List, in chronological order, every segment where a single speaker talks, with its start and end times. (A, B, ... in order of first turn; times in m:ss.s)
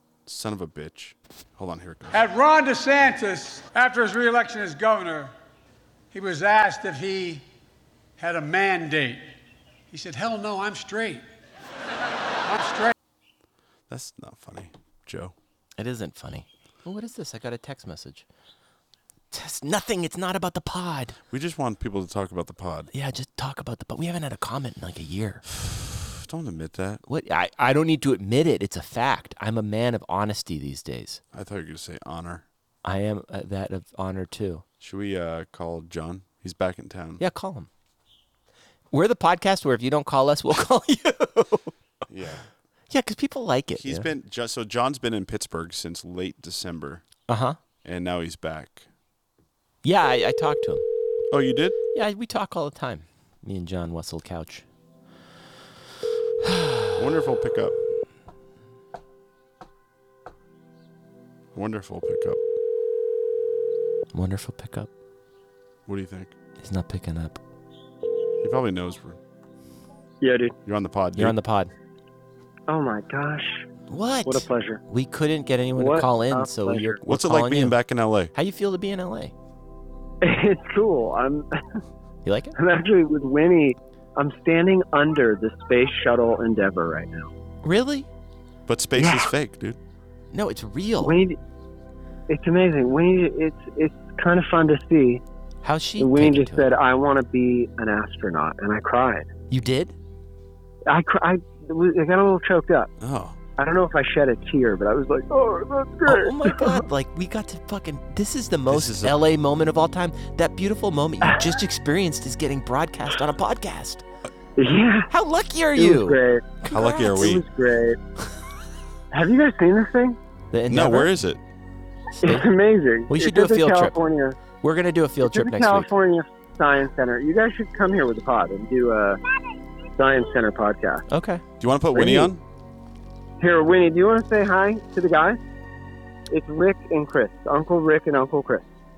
0:00.2-0:02.2 A
0:02.1-0:05.3 B
0:06.1-0:07.4 B
0:08.2-0:09.2 B
0:09.9-0:11.2 B
0:12.4-0:12.9 B
0:13.9-0:15.3 A
0:15.8-0:18.2 C
0:19.3-0:21.2 C
0:21.3-0:22.9 A
0:22.9-0:25.4 C
0:25.5-0:27.0 A
0:27.0-0:31.2 C
0:31.3-0:32.4 A
0:32.8-0:34.6 C
0:34.8-0:37.2 A
0:37.2-0:37.7 C
0:38.9-0:41.7 C
0:42.1-0:42.5 A
0:42.9-0:44.1 C
0:43.8-0:47.1 A
0:47.3-0:47.6 C
0:47.8-0:48.8 A
0:49.8-0:50.8 C
0:51.3-0:51.8 A
0:51.9-0:54.6 C
0:56.4-0:57.0 C
0:57.0-0:57.8 A
1:01.5-1:02.4 A
1:04.1-1:04.9 C
1:05.8-1:06.4 A
1:06.6-1:07.4 C
1:08.4-1:09.2 A
1:10.2-1:10.5 D
1:10.6-1:11.4 A
1:11.2-1:11.7 C
1:12.7-1:13.6 D
1:13.9-1:17.8 C
1:14.2-1:14.8 D
1:15.8-1:17.0 D
1:17.0-1:18.3 A
1:18.3-1:19.3 C
1:20.2-1:21.4 D
1:22.2-1:22.6 C
1:22.6-1:27.3 D
1:27.6-1:28.1 C
1:28.7-1:29.8 A
1:29.0-1:29.3 D
1:30.3-1:31.2 C
1:31.0-1:31.4 D
1:32.3-1:35.2 D
1:35.6-1:36.7 C
1:36.0-1:39.3 D
1:39.5-1:39.9 C
1:40.9-1:42.9 D
1:43.0-1:43.4 A
1:43.6-1:46.8 D
1:46.0-1:54.0 C
1:48.7-1:49.2 A
1:54.6-1:55.1 D
1:55.1-1:57.4 C
1:55.8-1:56.5 D
1:56.7-1:57.4 A
1:57.1-1:58.0 D
1:59.1-2:00.2 D
2:00.5-2:01.1 C
2:00.7-2:01.4 A
2:02.2-2:02.5 C
2:02.2-2:04.4 D
2:03.1-2:04.0 C
2:04.6-2:05.9 C
2:05.2-2:09.2 D
2:10.0-2:11.0 D
2:11.1-2:11.4 C
2:11.6-2:12.4 A
2:12.0-2:12.3 D
2:13.4-2:15.4 D
2:16.3-2:18.6 D